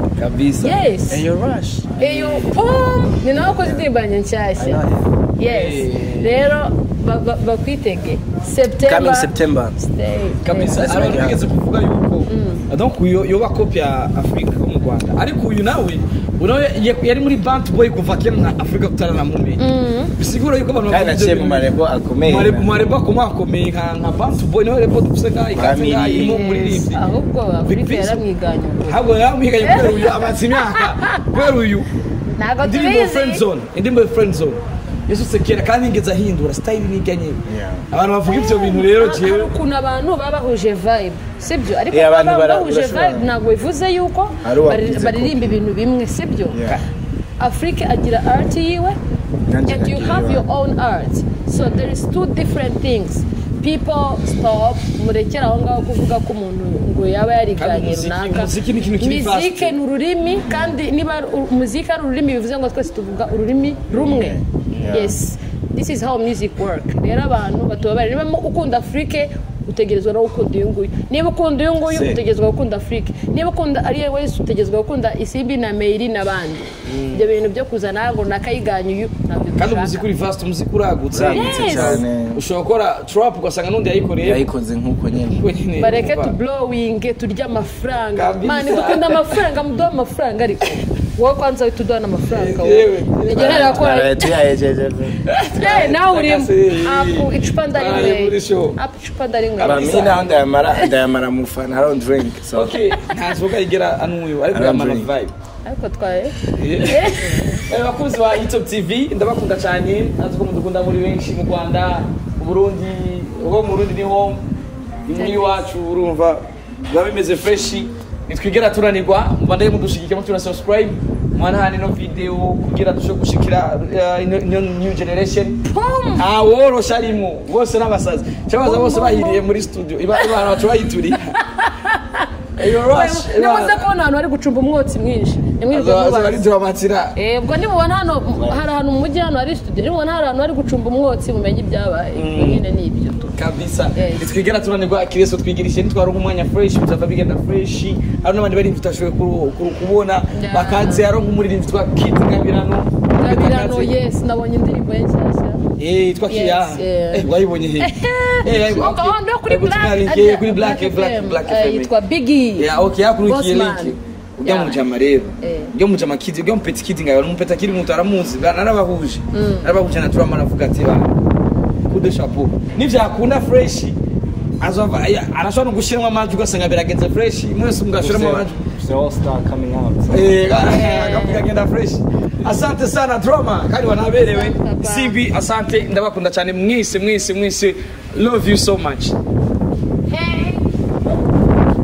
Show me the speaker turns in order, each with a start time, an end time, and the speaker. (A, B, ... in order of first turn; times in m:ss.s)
0:00.2-0:00.8 A
0:00.6-0:01.2 B
0:01.1-0:02.0 C
0:02.0-0:02.6 A
0:02.0-0:04.8 B
0:03.4-0:03.8 C
0:04.6-0:05.1 C
0:05.4-0:11.0 B
0:05.4-0:06.5 A
0:08.8-0:09.8 C
0:10.4-0:19.6 A
0:10.8-0:11.4 C
0:12.3-0:12.6 B
0:19.6-0:20.1 B
0:20.2-0:21.7 A
0:20.9-0:22.7 C
0:22.3-0:27.0 A
0:25.6-0:26.4 C
0:26.2-0:29.0 B
0:27.6-0:28.2 A
0:28.8-0:31.9 A
0:29.6-0:31.4 B
0:32.4-0:33.4 B
0:32.6-0:39.5 A
0:37.5-0:37.8 C
0:38.2-0:46.6 B
0:41.9-0:43.3 C
0:44.4-0:45.6 C
0:46.5-0:46.8 C
0:47.4-0:49.0 B
0:49.5-0:50.4 C
0:49.7-1:20.0 B
0:57.6-0:59.7 A
1:00.4-1:00.8 C
1:03.9-1:05.1 C
1:11.9-1:12.2 A
1:16.8-1:17.3 A
1:19.6-1:24.4 A
1:21.1-1:22.4 C
1:21.3-1:22.0 B
1:24.2-1:25.4 C
1:25.3-1:26.3 A
1:25.8-1:34.4 B
1:28.1-1:29.4 A
1:32.3-1:33.9 A
1:33.3-1:35.2 C
1:35.2-1:38.8 A
1:35.5-1:41.0 B
1:39.6-1:40.1 A
1:39.6-1:42.8 C
1:42.5-1:45.3 A
1:44.5-1:45.1 C
1:45.6-1:47.6 B
1:46.6-1:54.4 A
1:55.1-2:05.6 A
1:55.1-1:55.6 B
2:05.6-2:06.2 B
2:06.2-2:11.4 A
2:08.6-2:09.4 B
2:11.4-2:16.4 B
2:12.6-2:13.9 A
2:15.7-2:17.2 A
2:17.2-2:23.3 B
2:18.4-2:18.6 C
2:22.1-2:22.6 A
2:23.4-2:33.9 A
2:23.9-2:24.4 B
2:30.3-2:31.1 B
2:33.2-2:35.6 B
2:35.8-2:37.9 A
2:36.3-2:37.2 B
2:37.8-2:42.7 B
2:38.4-2:41.9 A
2:42.6-2:51.1 A
2:43.2-2:44.8 B
2:45.4-2:45.7 B
2:49.3-2:49.7 B
2:51.9-2:54.0 A
2:54.6-2:58.6 A
2:58.0-3:00.3 C
3:00.1-3:09.2 A
3:00.5-3:01.5 B
3:04.2-3:05.2 B
3:10.1-3:10.7 B